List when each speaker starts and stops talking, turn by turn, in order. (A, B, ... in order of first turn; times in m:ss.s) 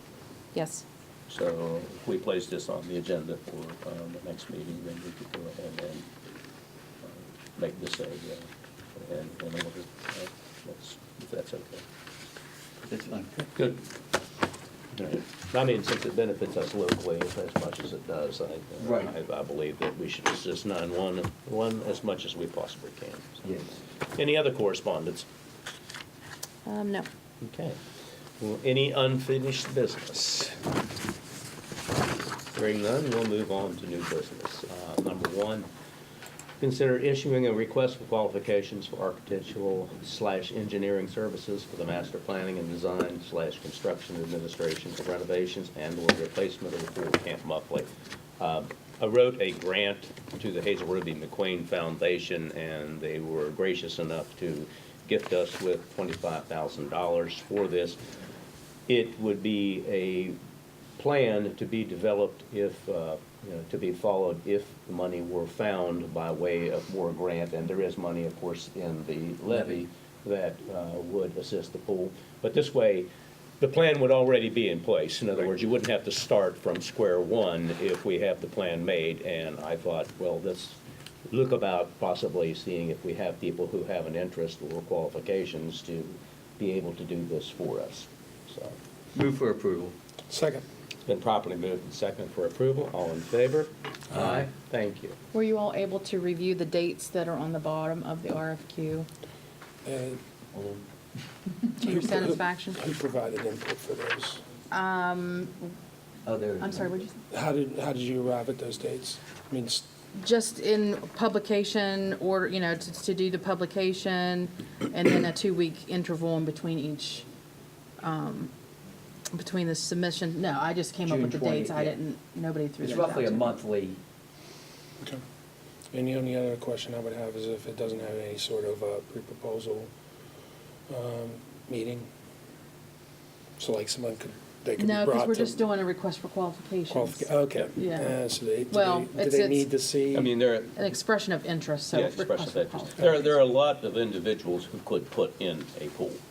0:00.5-0:00.8 A
0:01.3-0:06.1 B
0:07.0-0:11.8 B
0:12.8-0:13.5 C
0:14.9-0:23.4 B
0:18.8-0:19.1 C
0:23.4-0:23.8 C
0:24.1-0:25.2 B
0:26.6-0:27.1 A
0:27.4-0:27.8 B
0:28.4-0:30.6 B
0:32.5-0:35.7 B
0:36.6-0:58.0 B
0:58.9-1:00.4 B
1:01.0-1:13.1 B
1:13.6-1:20.8 B
1:21.3-1:28.8 B
1:29.1-1:30.0 C
1:30.3-1:30.6 D
1:31.0-1:35.2 B
1:34.1-1:34.5 C
1:35.3-1:39.1 A
1:39.8-1:40.2 D
1:40.5-1:40.8 C
1:41.8-1:42.8 A
1:41.8-1:44.4 D
1:44.7-1:45.7 A
1:46.2-1:46.9 C
1:46.6-1:47.2 A
1:47.3-1:49.9 D
1:50.1-1:57.2 A
1:58.0-1:58.5 A
1:59.3-2:03.6 A
2:01.0-2:01.9 C
2:02.8-2:04.0 C
2:05.9-2:09.9 D
2:10.9-2:12.1 D
2:13.6-2:15.6 D
2:14.8-2:18.2 A
2:16.9-2:20.3 D
2:18.7-2:19.7 A
2:20.1-2:20.8 B
2:20.8-2:23.3 A
2:21.9-2:26.2 B